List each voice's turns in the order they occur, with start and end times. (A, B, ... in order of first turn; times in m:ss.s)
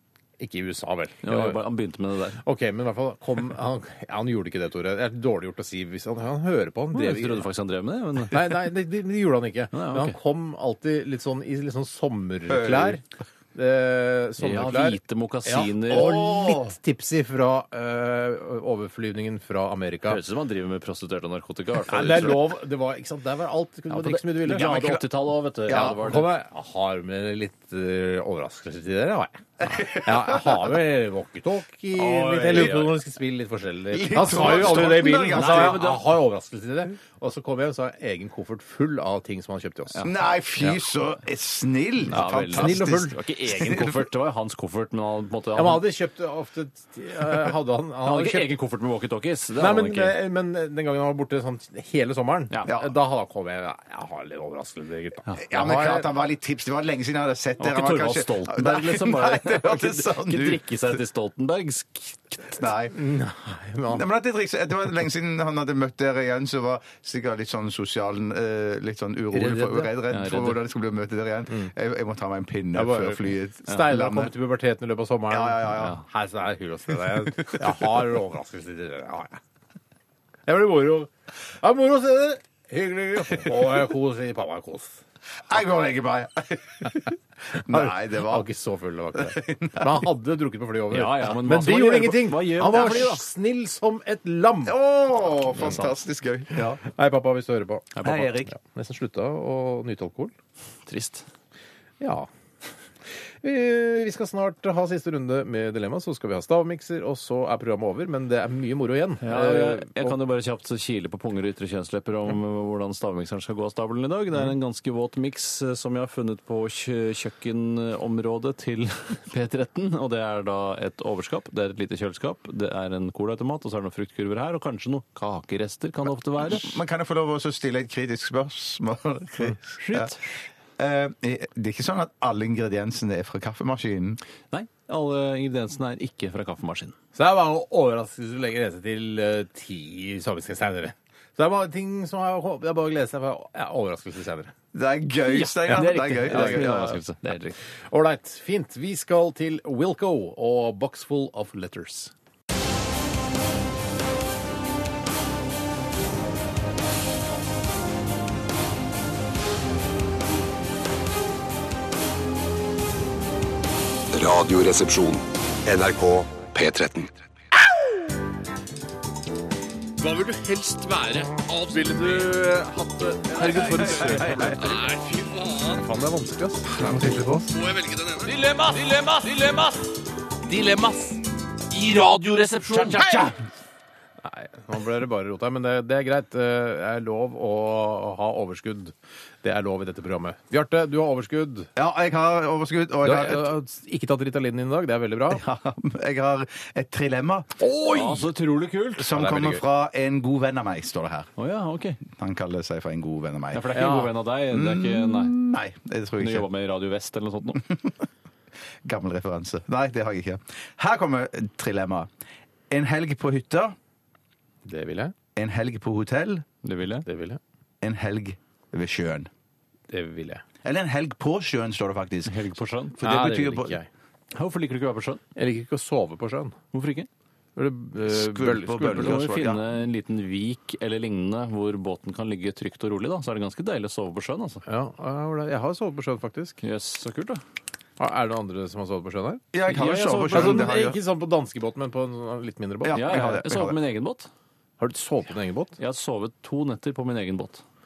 0:00.4-0:01.6 A
0:01.2-0:02.4 B
0:02.4-0:07.4 A
0:06.9-0:08.7 B
0:08.2-0:13.0 A
0:09.7-0:10.2 B
0:12.5-0:13.0 C
0:13.5-0:20.2 A
0:14.4-0:16.4 B
0:15.9-0:16.6 C
0:20.1-0:22.5 B
0:21.8-0:24.9 A
0:23.9-0:26.3 B
0:24.5-0:25.1 C
0:25.6-0:26.0 C
0:25.7-0:40.1 A
0:29.6-0:30.5 C
0:31.9-0:32.9 B
0:32.5-0:32.8 C
0:33.9-0:35.8 C
0:34.8-0:36.0 B
0:40.0-0:44.0 C
0:42.1-0:45.8 B
0:42.1-0:43.2 A
0:45.5-0:48.5 A
0:48.0-0:50.2 B
0:49.6-0:56.1 A
0:55.4-1:01.0 C
0:57.6-1:02.6 B
1:02.6-1:03.0 C
1:02.9-1:04.1 A
1:03.9-1:14.3 C
1:09.3-1:10.0 A
1:10.1-1:10.6 B
1:12.7-1:19.4 A
1:15.3-1:16.0 C
1:17.4-1:17.9 C
1:20.4-1:25.0 A
1:25.5-1:28.4 C
1:27.7-1:34.8 A
1:29.2-1:29.9 C
1:30.9-1:33.2 B
1:34.6-1:36.8 C
1:35.5-1:35.9 A
1:36.8-1:40.3 A
1:38.0-1:38.5 C
1:40.9-1:41.2 B
1:42.0-1:42.3 A
1:43.4-1:50.2 A
1:49.2-2:06.8 B
2:06.4-2:10.1 C
2:09.8-2:10.2 B
2:10.8-2:14.2 C
2:14.5-2:17.0 B
2:17.1-2:24.5 A
2:24.7-2:27.0 C
2:25.3-2:27.6 B
2:25.7-2:27.0 A
2:27.9-2:32.1 A
2:44.1-2:47.1 D
2:51.6-2:54.8 B
2:51.7-2:52.4 A
2:53.3-2:54.8 A
2:53.7-2:54.5 C
2:55.1-2:55.7 E
2:55.7-2:56.6 A
2:56.6-2:58.3 E
2:58.3-2:59.6 B
3:00.6-3:00.9 B
3:01.7-3:03.3 B
3:02.9-3:03.3 A
3:04.2-3:11.7 A
3:11.8-3:13.5 C
3:13.0-3:15.4 A
3:15.3-3:17.7 C
3:17.6-3:18.2 A
3:17.8-3:19.1 B
3:19.0-3:21.3 C
3:19.1-3:19.6 A
3:21.4-3:22.0 B
3:22.1-3:23.7 C
3:23.5-3:25.3 B
3:23.7-3:24.1 A
3:24.5-3:26.4 C
3:26.2-3:27.6 B
3:27.6-3:27.9 C
3:28.8-3:32.1 C
3:32.7-3:33.8 C
3:34.6-3:35.1 A
3:35.4-3:36.4 C
3:36.6-3:37.0 B
3:37.0-3:37.4 A
3:37.8-3:39.3 C
3:39.9-3:40.4 A
3:40.6-3:42.4 C
3:42.2-3:43.0 B
3:43.0-3:43.8 C
3:43.0-3:43.9 A
3:44.3-3:45.2 B
3:45.4-3:46.6 A
3:46.7-3:47.1 B
3:47.6-3:49.2 A
3:48.1-3:49.6 C
3:48.9-3:54.6 B
3:54.6-3:56.6 A
3:56.6-3:57.4 B
3:58.0-4:03.4 A
3:59.5-4:01.0 C
3:59.7-4:00.7 B
4:02.8-4:03.8 C
4:02.9-4:04.3 B
4:04.8-4:05.8 A
4:05.8-4:07.6 B